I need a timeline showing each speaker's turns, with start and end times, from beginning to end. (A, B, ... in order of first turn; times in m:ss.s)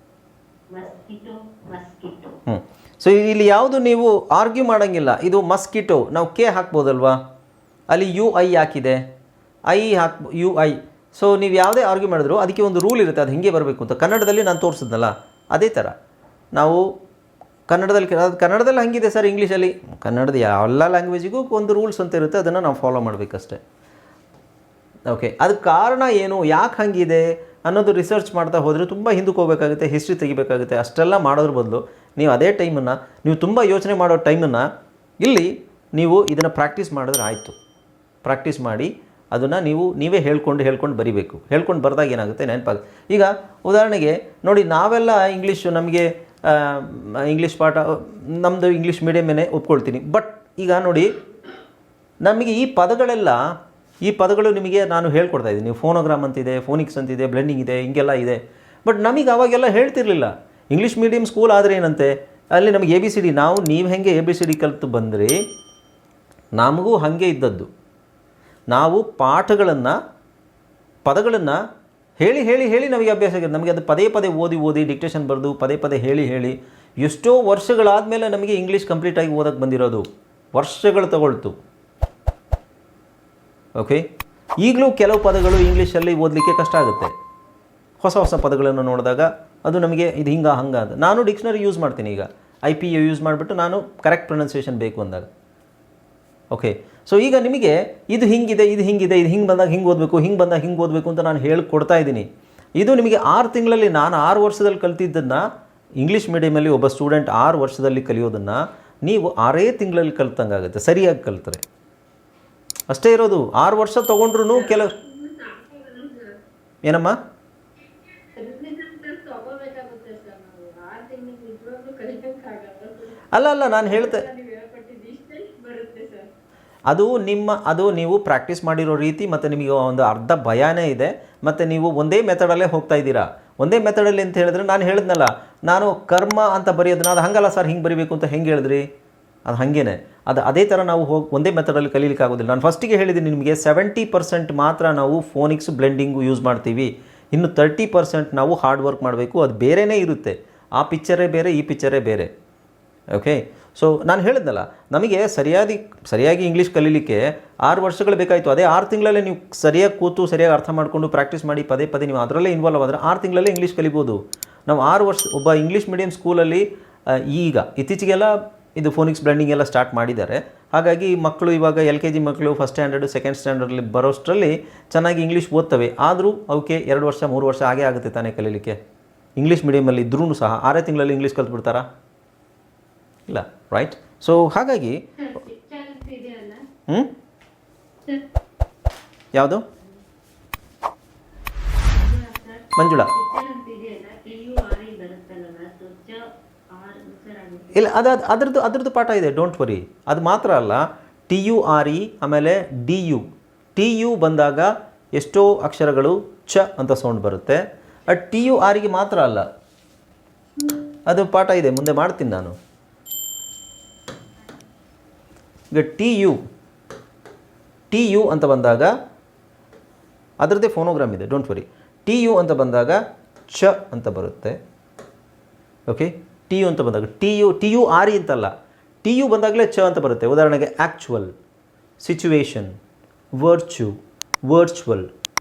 0:00.7-0:02.4 A
0:02.5-0:07.2 B
0:07.9-0:09.0 B
0:09.7-0:15.9 B
0:16.5-0:16.9 B
0:17.7-0:23.6 B
0:25.1-0:34.7 B
0:35.2-0:37.6 B
0:38.2-0:51.1 B
0:52.2-1:05.4 B
1:06.5-1:07.7 B
1:08.7-1:10.0 B
1:11.0-1:11.6 B
1:12.2-1:21.6 B
1:23.8-1:24.1 B
1:24.6-1:27.1 B
1:28.0-1:35.3 B
1:36.5-1:51.6 B
1:52.9-1:55.0 B
1:54.5-1:56.4 C
1:56.8-1:57.2 B
1:58.1-2:03.2 C
2:03.3-2:04.2 B
2:03.8-2:06.3 C
2:06.9-2:18.9 B
2:19.4-2:32.3 B
2:33.1-2:58.8 B
2:59.4-3:01.8 B
3:03.3-3:05.0 B
3:05.2-3:06.7 A
3:09.3-3:09.6 B
3:12.0-3:17.9 A
3:12.8-3:13.1 B
3:17.7-3:29.4 B
3:31.1-3:32.6 B
3:35.7-3:36.4 B
3:37.9-3:38.9 B
3:40.4-3:44.6 B
3:45.9-3:51.3 B
3:52.0-3:52.8 B
3:53.3-3:55.1 B